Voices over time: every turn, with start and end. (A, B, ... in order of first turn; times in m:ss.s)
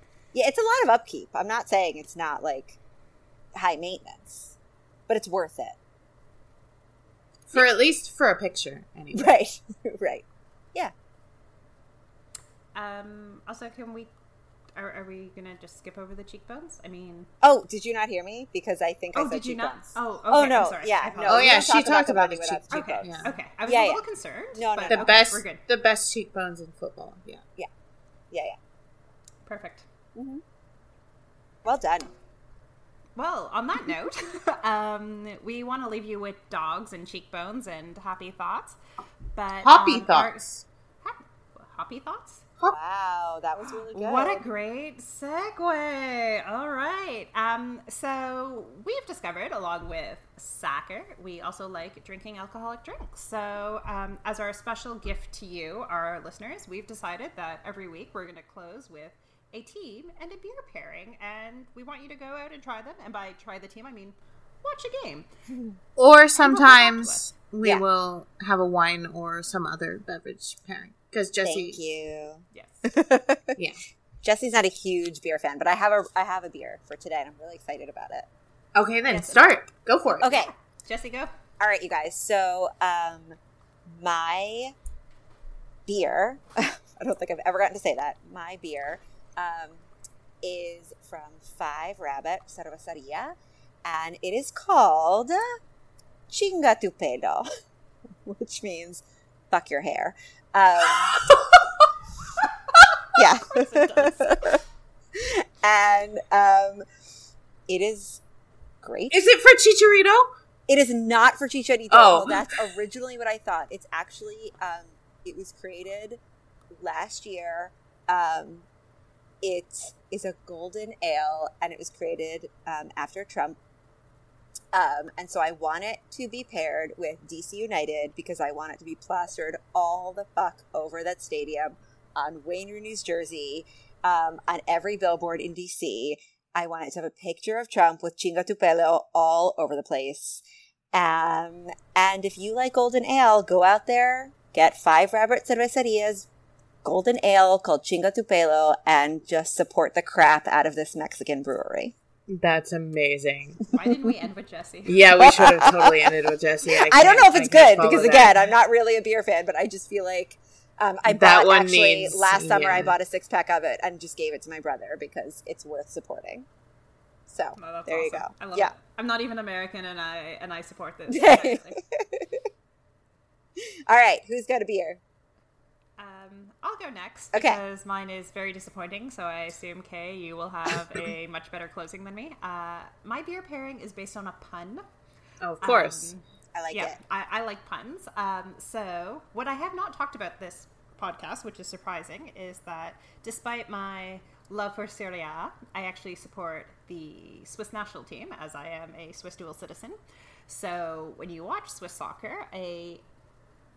0:00.3-0:02.8 A
0:03.6-0:04.5 A
0:05.1-0:05.8 A
0:07.5-0:09.4 B
0:09.1-0:10.9 A
0:12.7-0:14.1 C
0:14.7-0:17.3 C
0:17.4-0:24.0 A
0:19.1-0:21.6 C
0:21.2-0:23.3 B
0:22.7-0:25.6 C
0:24.5-0:25.2 A
0:24.9-0:27.4 B
0:28.3-0:28.6 A
0:29.4-0:29.8 C
0:30.2-0:30.4 A
0:31.6-0:32.1 A
0:33.2-0:38.8 C
0:39.3-0:40.4 C
0:39.6-0:40.6 B
0:41.0-0:42.5 C
0:42.7-0:44.4 A
0:43.9-1:05.3 C
1:06.0-1:11.8 B
1:06.4-1:07.2 C
1:11.4-1:13.6 A
1:12.5-1:12.8 C
1:14.2-1:18.3 A
1:18.7-1:20.3 B
1:19.1-1:19.6 C
1:20.2-1:21.3 C
1:20.2-1:20.5 A
1:21.6-1:23.4 A
1:23.9-1:24.7 A
1:25.9-1:29.8 A
1:30.4-1:35.6 A
1:36.3-1:37.4 A
1:38.2-1:41.2 A
1:43.1-1:44.6 A
1:43.2-1:44.6 C
1:45.1-1:46.8 A
1:47.7-1:48.2 A
1:48.8-1:49.2 A
1:49.1-1:50.3 B
1:50.7-1:56.2 A
1:51.9-1:52.6 B
1:56.7-1:58.6 A
1:59.4-2:03.6 A
2:04.7-2:26.3 A
2:26.8-2:31.9 A
2:32.3-2:33.6 B
2:33.7-2:35.1 C
2:34.8-2:38.5 B
2:35.2-2:36.1 A
2:36.7-2:46.5 A
2:41.0-2:42.9 B
2:47.3-2:48.7 A
2:47.6-2:51.8 C
2:51.1-2:52.4 A
2:53.9-2:55.0 A
2:56.0-3:04.8 C
2:57.3-2:57.6 A
3:05.4-3:06.1 B
3:05.6-3:23.0 C
3:06.6-3:07.0 A